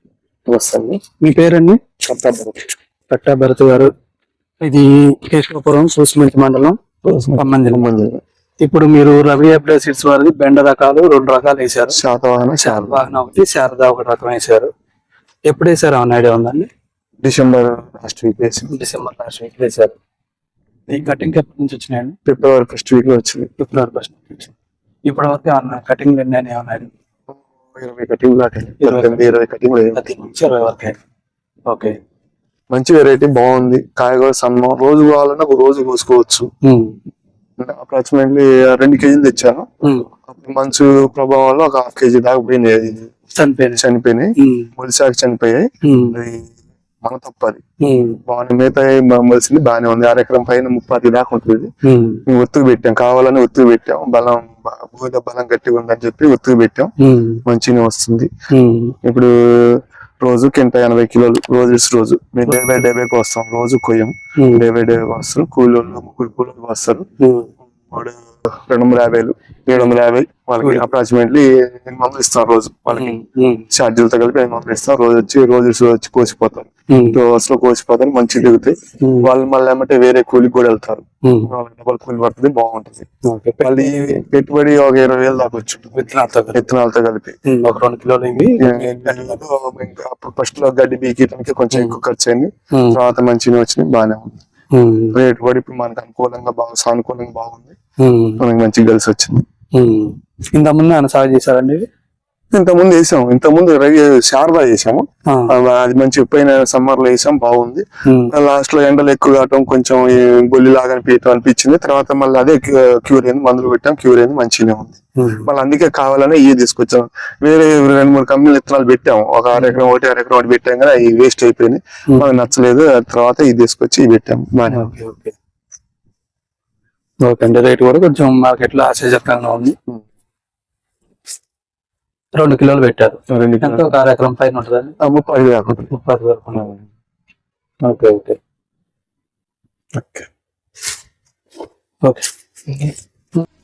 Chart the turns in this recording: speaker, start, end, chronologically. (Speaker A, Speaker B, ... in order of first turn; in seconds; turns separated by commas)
Speaker A: 0.5-1.0, Speaker B: 1.2-1.8, Speaker A: 2.0-2.7, Speaker B: 3.1-3.9, Speaker B: 4.6-6.8, Speaker A: 7.0-8.2, Speaker B: 7.4-7.8, Speaker B: 8.6-12.0, Speaker A: 11.9-13.0, Speaker B: 12.6-14.7, Speaker B: 15.5-16.7, Speaker A: 17.2-18.7, Speaker B: 18.7-19.9, Speaker B: 20.9-22.1, Speaker A: 22.2-23.5, Speaker B: 23.6-24.5, Speaker B: 25.1-26.9, Speaker A: 27.3-30.0, Speaker B: 28.8-29.2, Speaker B: 29.9-31.0, Speaker B: 31.7-31.9, Speaker A: 32.7-36.5, Speaker B: 36.6-36.9, Speaker A: 37.6-39.7, Speaker B: 39.8-40.1, Speaker A: 40.3-43.1, Speaker B: 43.4-43.8, Speaker A: 43.8-46.4, Speaker B: 44.4-44.7, Speaker B: 45.8-46.1, Speaker A: 47.0-47.6, Speaker B: 47.8-48.2, Speaker A: 48.3-51.7, Speaker B: 51.8-52.2, Speaker A: 52.3-56.9, Speaker B: 57.0-57.4, Speaker A: 57.5-58.3, Speaker B: 58.5-59.0, Speaker A: 59.0-67.0, Speaker B: 64.4-64.6, Speaker B: 67.2-67.5, Speaker A: 68.7-73.2, Speaker B: 72.9-73.7, Speaker A: 73.7-83.1, Speaker B: 76.9-77.2, Speaker B: 79.0-79.3, Speaker B: 81.2-81.5, Speaker B: 83.2-84.0, Speaker A: 83.6-85.9, Speaker B: 85.9-86.7, Speaker A: 86.5-87.4, Speaker B: 87.5-89.4, Speaker A: 88.6-94.4, Speaker B: 91.7-92.0, Speaker B: 92.7-93.0, Speaker B: 94.7-95.1, Speaker A: 95.1-97.7, Speaker B: 98.0-98.4, Speaker A: 98.4-99.4, Speaker B: 99.7-101.8, Speaker A: 102.5-124.9, Speaker B: 108.0-108.3, Speaker B: 115.2-115.5, Speaker B: 124.7-125.3, Speaker B: 127.2-129.7, Speaker B: 132.3-134.9, Speaker A: 133.3-133.9, Speaker A: 135.0-135.9, Speaker B: 135.9-136.7, Speaker A: 136.5-136.8, Speaker B: 137.8-138.4, Speaker A: 139.9-140.3, Speaker B: 142.0-142.9